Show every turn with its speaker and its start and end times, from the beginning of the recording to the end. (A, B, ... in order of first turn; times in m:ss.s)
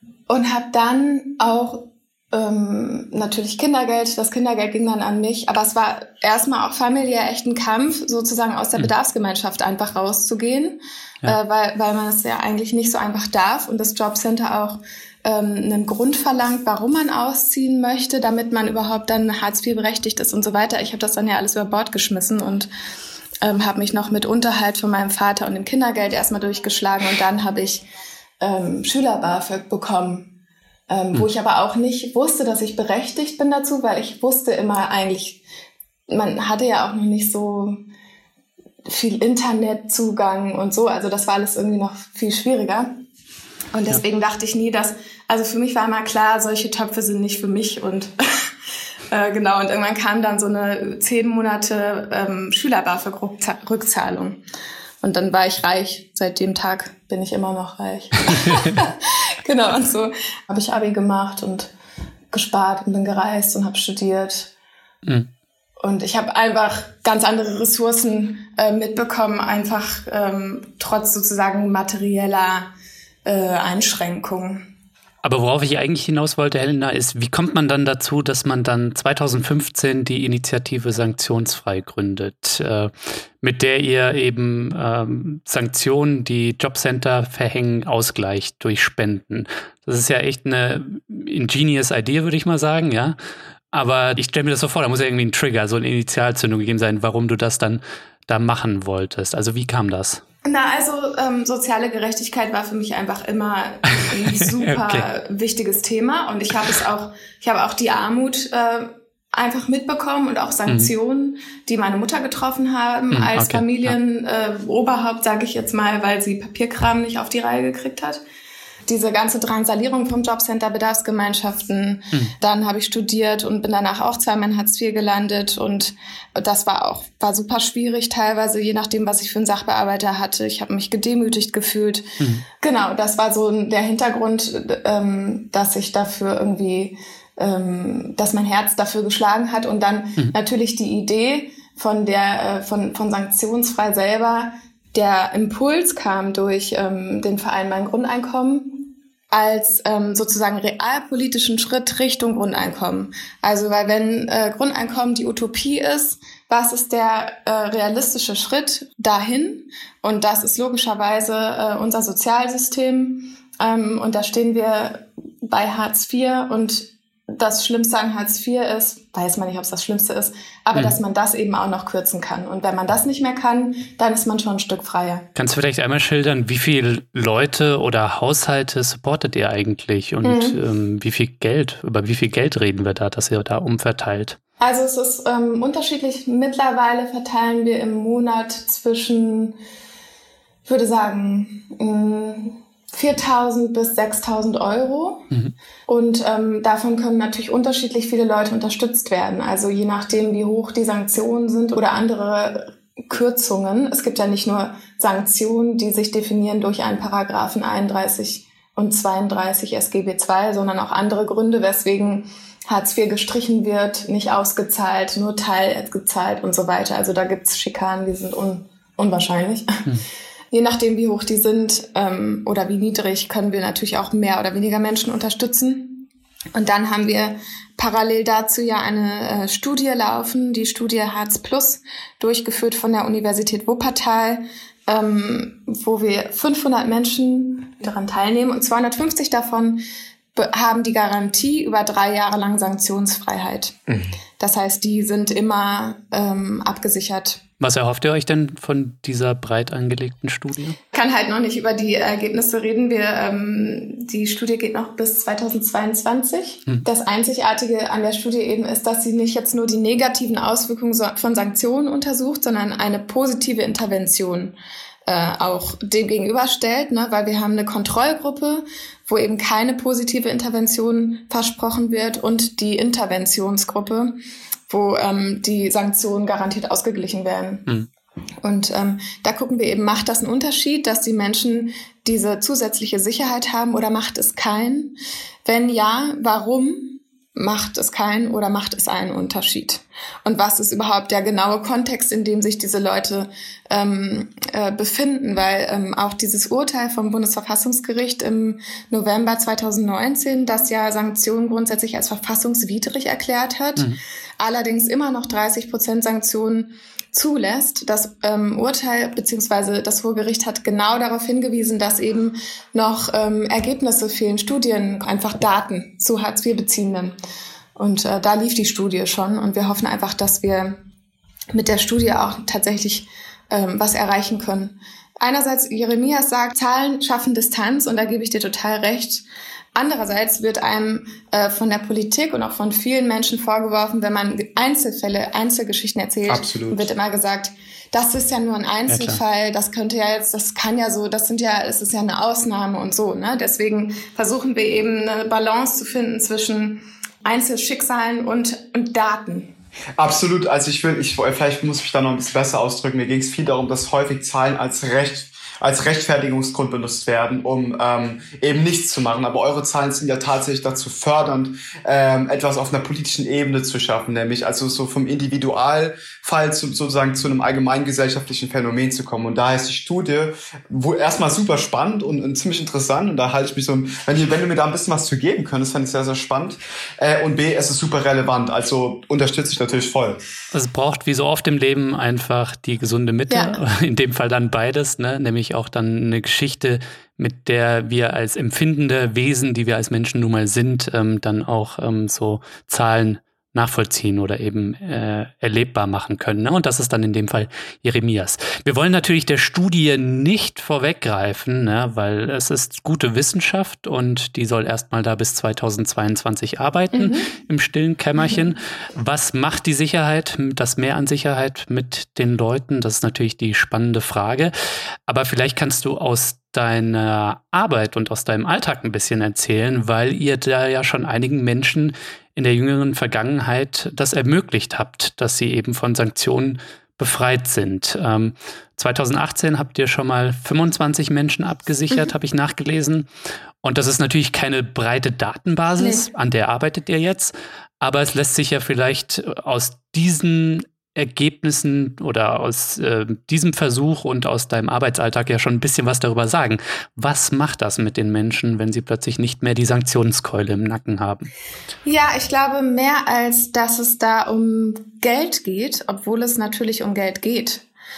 0:00.3-0:22.7 A
0:23.4-0:27.8 A
0:28.4-0:30.3 A
0:30.9-0:35.4 A
0:36.1-0:37.8 A
0:38.9-0:42.9 A
0:43.7-0:48.5 A
0:49.1-0:54.4 A
0:55.0-1:01.7 A
0:58.3-0:58.8 B
1:02.3-1:04.5 A
1:05.8-1:12.7 A
1:13.2-1:14.7 A
1:15.2-1:33.2 B
1:33.7-1:40.2 B
1:40.4-1:58.2 A
1:43.9-1:45.0 B
1:50.7-1:50.9 B
1:53.1-1:54.0 B
1:58.9-2:55.3 A
2:12.2-2:12.5 B
2:55.4-3:04.4 B
3:00.2-3:00.6 A
3:04.6-3:09.6 A
3:10.7-3:15.3 A
3:15.9-3:39.9 A
3:40.5-3:59.8 A
4:00.4-4:03.8 A
4:03.9-4:04.1 C
4:04.4-4:07.4 A
4:07.6-4:10.8 B
4:10.9-4:24.6 A
4:25.1-4:34.2 A
4:34.7-4:37.7 A
4:38.4-5:17.2 A
5:17.8-5:20.8 A
5:21.5-5:29.2 A
5:29.8-5:49.5 A
5:36.3-5:36.9 C
5:38.9-5:39.2 B
5:50.0-6:20.2 C
6:20.5-6:54.5 B
6:23.3-6:23.6 A
6:46.9-6:47.3 A
6:55.1-7:13.1 B
7:13.6-7:31.3 B
7:15.8-7:16.0 A
7:31.8-7:37.6 A